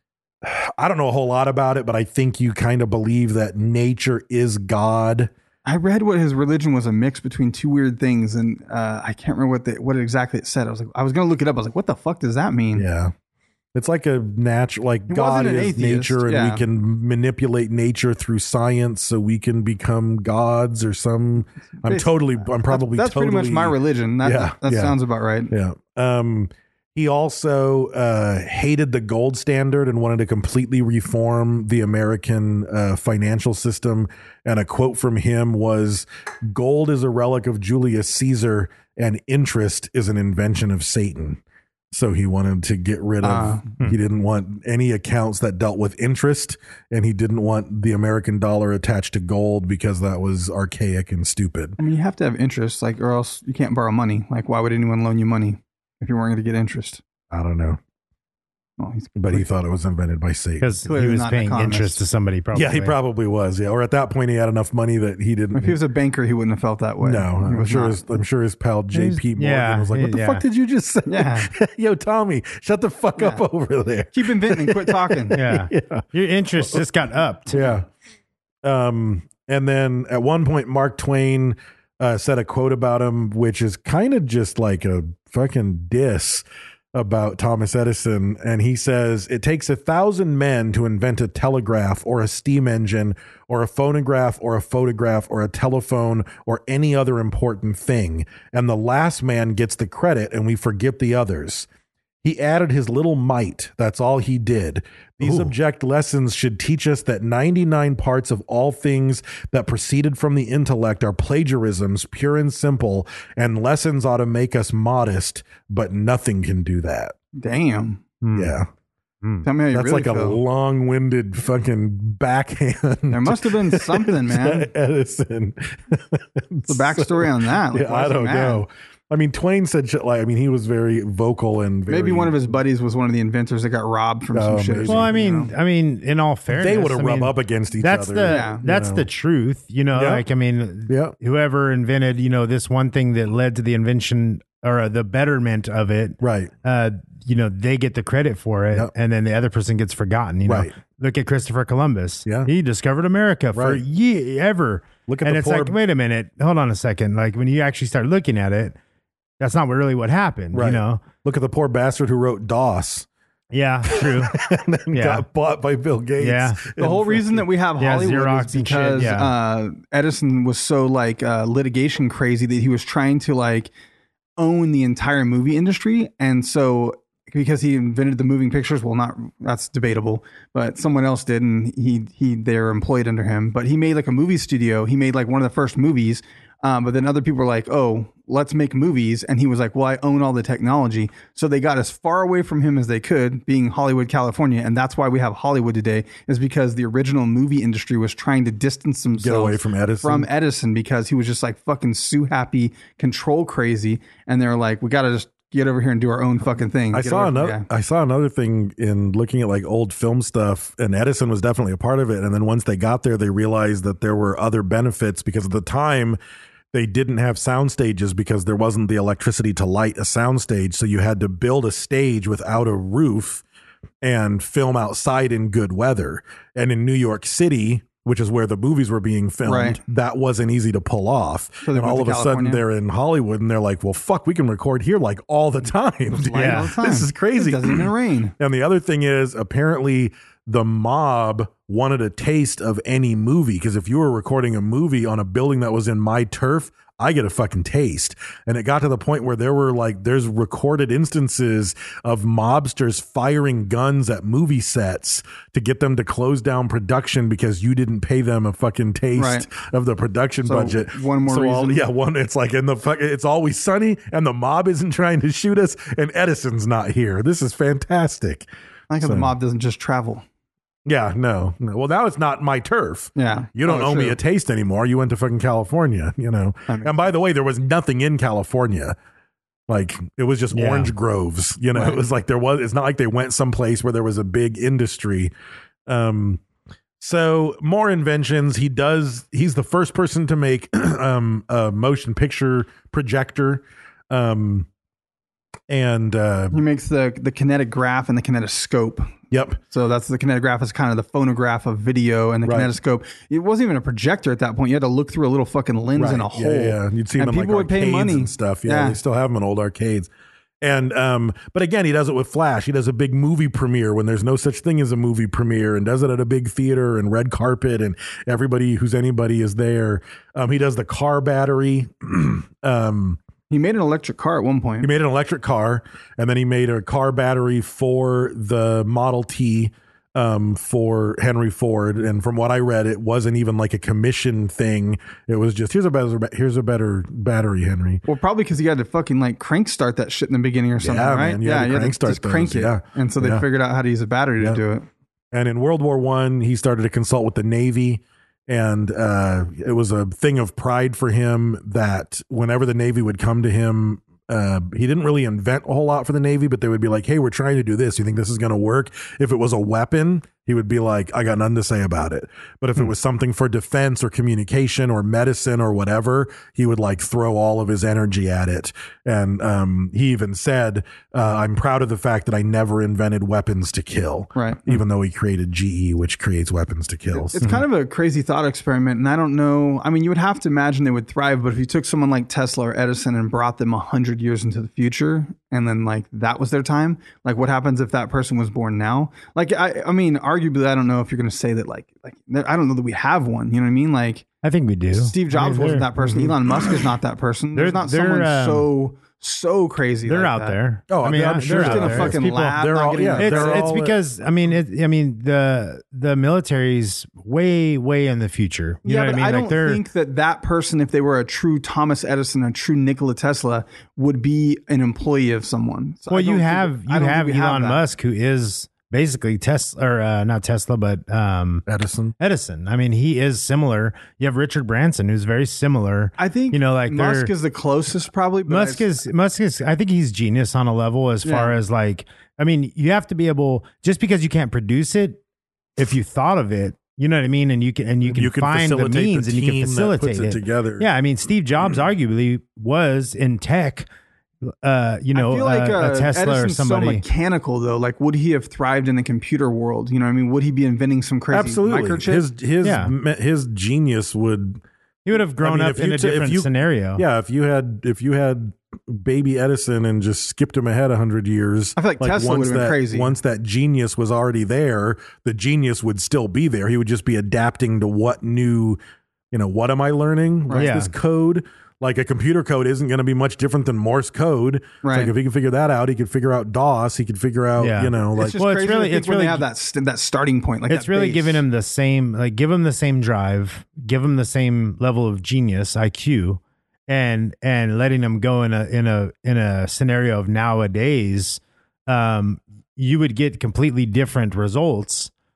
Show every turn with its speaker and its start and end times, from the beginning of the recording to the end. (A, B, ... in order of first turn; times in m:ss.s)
0:00.4-0:05.3 A
0:05.6-0:12.8 B
0:12.7-0:13.1 A
0:13.7-0:25.0 A
0:15.1-0:16.6 B
0:21.8-0:25.5 B
0:25.5-0:41.4 A
0:41.9-0:51.8 A
0:43.2-0:43.6 B
0:51.8-0:57.0 B
0:57.3-0:57.8 A
0:58.8-0:59.5 B
0:59.2-1:00.7 A
1:00.6-1:03.0 C
1:00.8-1:02.0 B
1:02.5-1:05.8 A
1:05.5-1:08.0 B
1:07.0-1:16.0 A
1:08.9-1:10.4 C
1:11.1-1:11.5 B
1:13.2-1:13.4 B
1:14.1-1:15.4 B
1:15.3-1:17.7 C
1:16.6-1:16.8 A
1:17.5-1:17.9 A
1:18.6-1:41.7 A
1:42.2-1:57.1 A
1:45.2-1:45.5 C
1:57.3-1:58.0 B
1:58.2-1:58.6 C
1:58.3-1:58.7 A
1:59.4-2:00.4 B
1:59.7-2:12.4 A
2:03.1-2:04.7 B
2:06.7-2:08.6 B
2:11.9-2:15.5 B
2:14.3-2:15.1 A
2:14.9-2:38.8 C
2:16.5-2:19.0 A
2:18.3-2:18.6 B
2:19.9-2:20.2 A
2:20.9-2:21.1 A
2:26.2-2:26.5 A
2:30.4-2:30.7 A
2:33.5-2:33.8 A
2:35.1-2:35.8 A
2:39.4-2:41.0 C
2:40.5-2:43.1 A
2:43.5-2:44.4 C
2:43.9-2:47.4 A
2:44.9-2:45.2 C
2:46.2-2:46.7 C
2:46.8-2:53.7 B
2:47.8-2:49.3 C
2:54.4-3:27.6 B
3:19.2-3:20.3 A
3:26.9-3:36.2 A
3:36.7-3:43.4 A
3:44.0-4:28.5 A
3:49.4-3:49.8 B
3:51.6-3:52.6 B
3:56.1-3:58.3 B
3:56.3-3:56.8 C
4:19.2-4:19.5 B
4:20.4-4:21.8 B
4:28.9-4:30.2 B
4:29.0-4:29.3 A
4:30.8-4:39.0 A
4:33.2-4:34.2 B
4:36.7-4:37.0 B
4:39.7-4:45.3 A
4:40.5-4:40.9 C
4:45.9-4:46.4 A
4:47.0-4:54.7 A
4:55.7-4:56.6 A
4:56.5-4:59.1 B
4:59.3-4:59.6 A
4:59.7-5:09.0 B
5:02.4-5:02.7 A
5:06.0-5:10.1 A
5:10.6-5:23.2 A
5:23.5-5:24.9 B
5:24.8-5:38.0 A
5:38.0-5:44.9 B
5:40.8-5:43.4 A
5:45.3-6:17.3 A
6:14.3-6:14.7 B
6:17.1-6:34.2 B
6:34.4-6:35.9 C
6:34.9-6:40.6 B
6:36.0-6:36.3 A
6:37.5-6:38.7 C
6:40.1-6:49.8 C
6:40.9-6:44.0 A
6:41.5-6:43.6 B
6:48.8-6:57.8 B
6:56.1-7:01.6 C
7:01.6-7:02.2 A
7:02.2-7:07.3 C
7:06.2-7:08.8 B
7:08.5-7:15.2 C
7:11.2-7:11.5 B
7:15.8-7:23.9 C
7:18.0-7:20.9 A
7:24.5-7:27.0 C
7:25.1-7:32.2 B
7:31.3-7:34.6 A
7:32.6-7:32.9 C
7:35.0-7:37.0 C
7:35.4-7:48.8 A
7:41.8-7:43.1 B
7:49.3-7:58.4 A
7:50.5-7:50.9 C
7:54.8-7:55.1 B
7:57.6-7:59.4 C
7:58.2-8:01.4 B
8:00.7-8:15.1 C